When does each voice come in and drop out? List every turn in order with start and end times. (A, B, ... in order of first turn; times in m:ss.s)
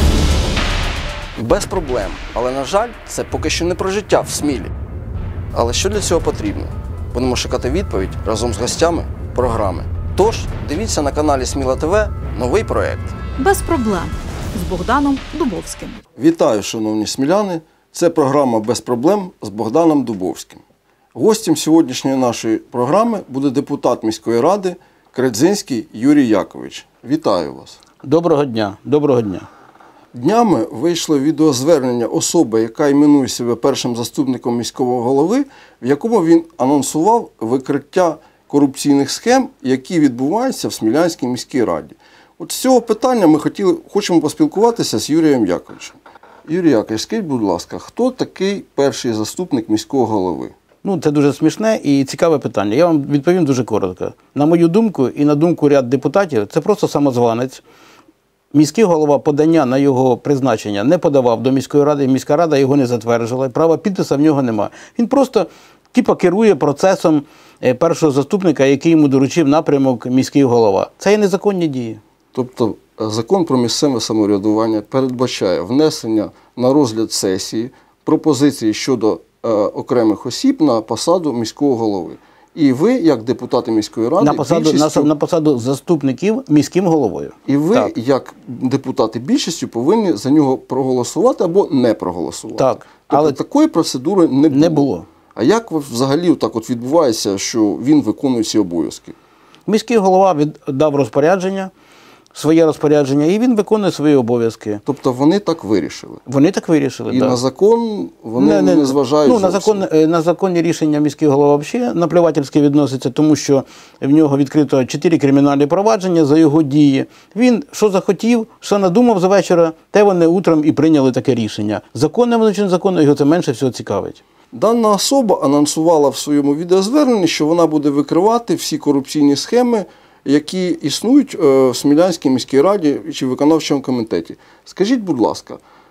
0:01.4-0:04.7 A
0:05.5-0:13.1 A
0:13.4-0:16.0 B
0:16.2-0:20.6 A
0:21.1-0:27.8 A
0:28.0-0:29.4 C
0:30.1-0:50.5 A
0:50.8-0:57.6 C
0:58.5-1:12.0 C
1:12.3-1:25.1 A
1:24.2-1:27.9 C
1:27.4-1:39.2 A
1:32.6-1:33.4 C
1:34.5-1:35.1 C
1:39.7-1:41.7 C
1:42.3-1:44.8 C
1:44.8-1:46.2 A
1:46.3-1:47.4 C
1:47.1-1:49.9 A
1:48.4-2:04.2 C
2:04.5-2:15.6 A